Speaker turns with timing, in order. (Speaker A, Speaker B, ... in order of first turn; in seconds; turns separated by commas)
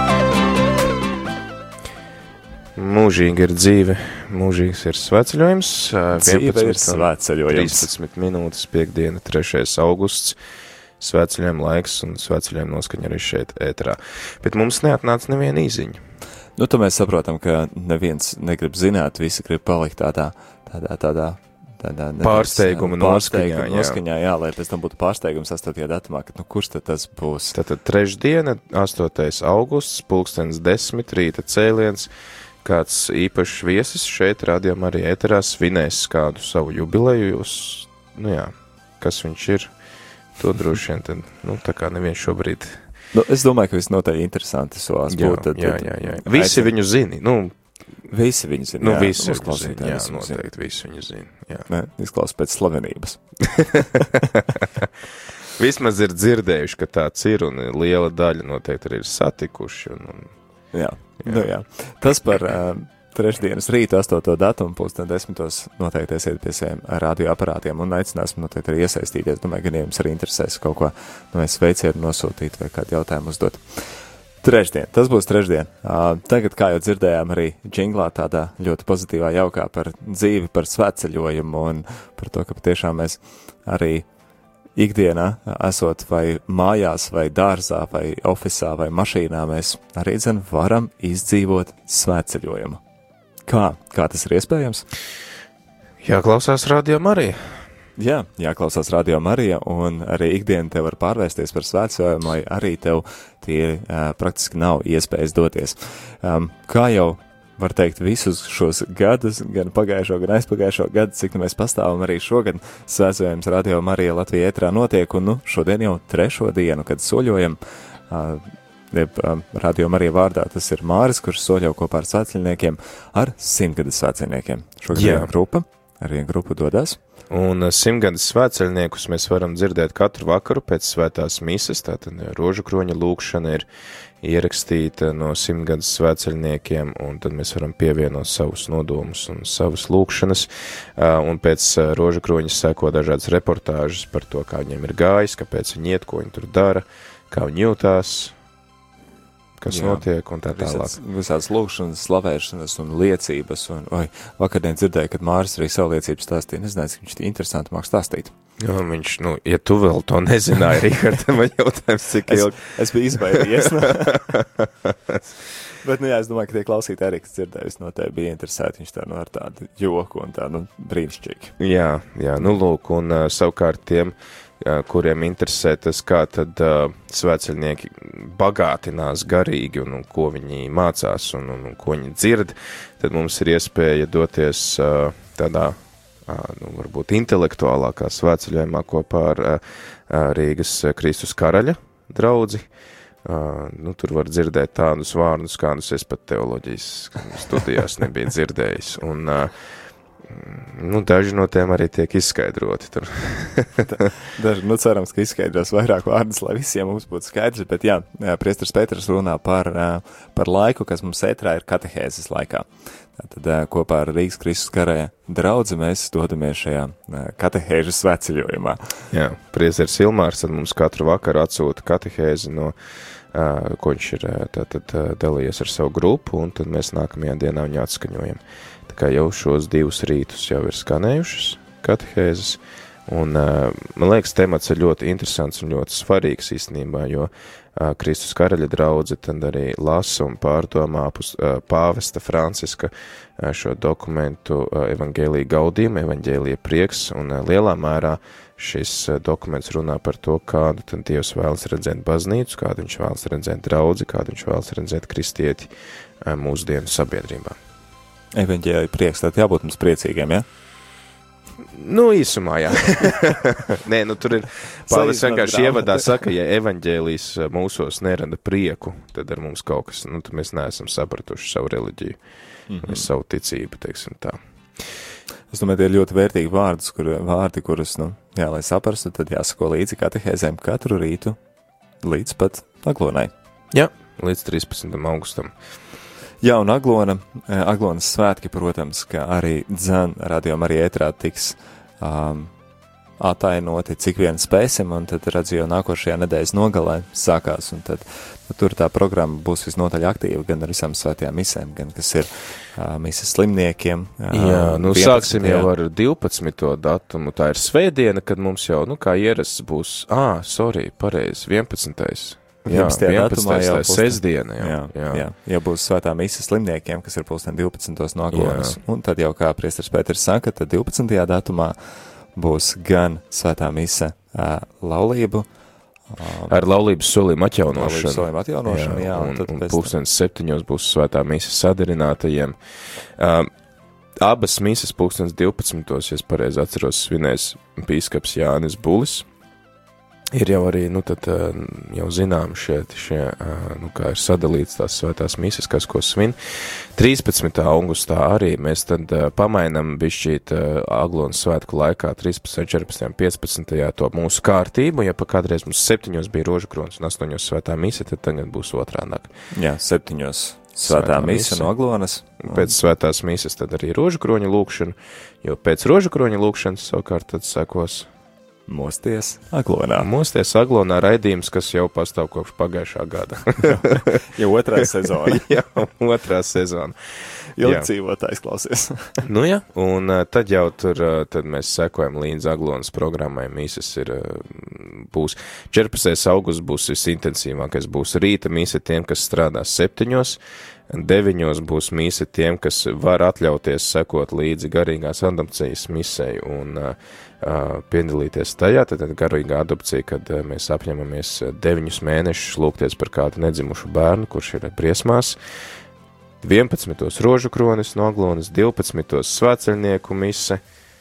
Speaker A: 2.8-10.4, Speaker B: 6.1-7.9, Speaker A: 11.0-16.0, Speaker B: 16.6-27.5, Speaker A: 22.2-24.0, Speaker A: 27.5-32.1, Speaker A: 32.6-39.7, Speaker A: 40.4-42.8, Speaker B: 43.1-46.7, Speaker A: 45.1-47.5, Speaker B: 48.1-50.5, Speaker A: 48.8-51.7, Speaker B: 51.7-53.2, Speaker A: 53.5-54.9, Speaker A: 55.6-60.3, Speaker B: 60.7-73.6, Speaker A: 61.2-61.5, Speaker B: 74.4-84.0, Speaker B: 84.7-92.8, Speaker B: 93.5-94.9, Speaker A: 96.0-97.6, Speaker B: 98.0-127.0, Speaker A: 124.9-125.3, Speaker A: 127.3-133.7, Speaker A: 134.2-148.3, Speaker A: 149.6-151.0, Speaker B: 149.7-158.3, Speaker A: 158.6-165.2, Speaker B: 162.2-164.3, Speaker B: 165.8-171.6, Speaker A: 171.6-192.7, Speaker A: 193.2-199.5, Speaker A: 200.3-203.9, Speaker B: 203.9-218.9, Speaker A: 219.1-257.6, Speaker B: 258.3-260.4, Speaker A: 261.6-272.2, Speaker B: 264.9-266.1, Speaker B: 272.7-273.1, Speaker A: 272.8-274.8, Speaker B: 275.5-281.4, Speaker B: 282.0-283.3, Speaker A: 283.7-285.5, Speaker B: 286.4-292.5, Speaker B: 293.2-305.7, Speaker A: 304.3-315.2, Speaker B: 312.7-321.8, Speaker A: 318.3-318.8, Speaker B: 322.3-325.5, Speaker B: 326.1-326.5, Speaker A: 326.5-332.6, Speaker B: 327.7-329.9, Speaker A: 333.1-333.5, Speaker A: 334.2-339.3, Speaker A: 340.3-359.3, Speaker B: 359.5-362.7, Speaker A: 360.8-361.7, Speaker A: 362.4-368.1, Speaker B: 368.7-370.1, Speaker A: 370.0-374.2, Speaker B: 373.6-375.4, Speaker A: 375.1-377.0, Speaker B: 377.6-379.2, Speaker A: 377.6-377.9, Speaker A: 379.2-390.4, Speaker A: 390.9-405.4, Speaker A: 406.4-410.6